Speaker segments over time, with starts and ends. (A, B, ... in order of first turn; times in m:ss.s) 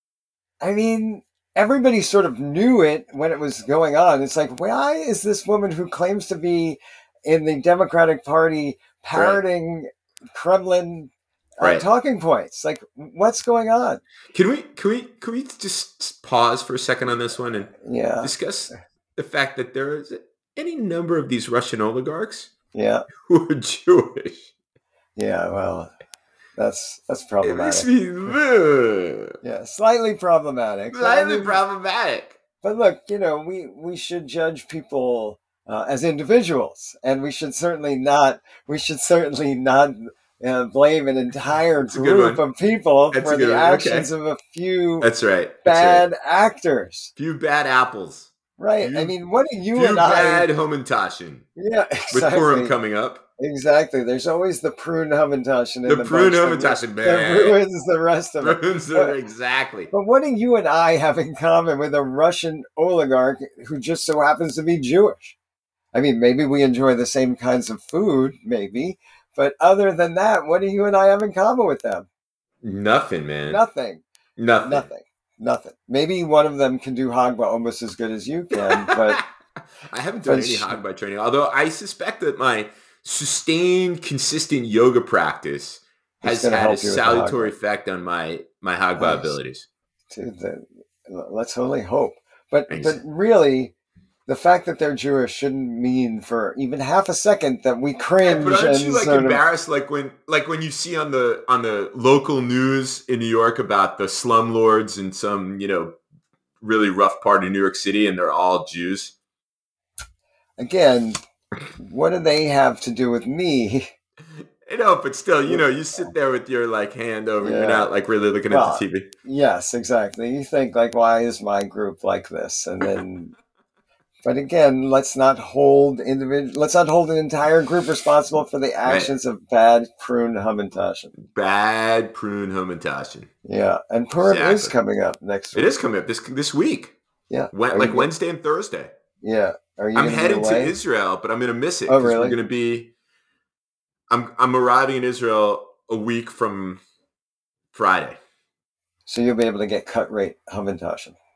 0:00.6-0:14.0 A
0:09.1-0:09.4 B
0:11.6-0:11.8 B
0:14.3-0:22.5 B
0:17.7-0:18.3 A
0:22.7-0:23.1 A
0:23.2-0:24.5 B
0:25.2-0:25.9 A
0:26.6-0:27.9 A
0:27.4-0:29.3 B
0:29.4-0:31.6 A
0:30.9-0:32.4 B
0:32.6-0:45.1 A
0:41.8-0:42.4 B
0:43.1-0:44.1 B
0:45.0-0:46.1 B
0:45.6-0:47.1 A
0:47.2-0:49.1 B
0:48.6-0:50.5 A
0:49.7-0:51.4 B
0:51.6-0:52.8 A
0:52.1-0:53.2 B
0:53.4-0:59.2 A
0:55.8-0:57.6 B
0:58.4-0:59.9 B
0:59.9-1:05.4 A
1:05.9-1:12.1 A
1:12.6-1:13.6 B
1:13.5-1:14.0 A
1:14.4-1:14.8 B
1:14.6-1:19.2 A
1:18.5-1:19.2 B
1:19.9-1:29.6 B
1:20.2-1:20.8 A
1:26.2-1:27.5 A
1:29.0-1:29.3 A
1:30.1-1:33.7 A
1:32.7-1:33.0 B
1:34.3-1:39.4 A
1:38.2-1:46.0 B
1:46.6-1:49.1 B
1:50.6-1:51.2 A
1:51.8-1:53.9 A
1:54.4-1:59.1 B
1:57.4-1:57.9 A
1:58.5-2:03.3 A
2:04.2-2:11.1 A
2:08.8-2:09.1 B
2:11.2-2:13.3 B
2:13.4-2:15.7 A
2:14.2-2:14.7 B
2:15.5-2:16.9 B
2:17.3-2:18.1 A
2:17.5-2:18.9 B
2:19.2-2:20.8 A
2:19.9-2:22.9 B
2:21.9-2:22.4 A
2:24.1-2:26.8 B
2:27.7-2:28.2 B
2:29.0-2:31.2 A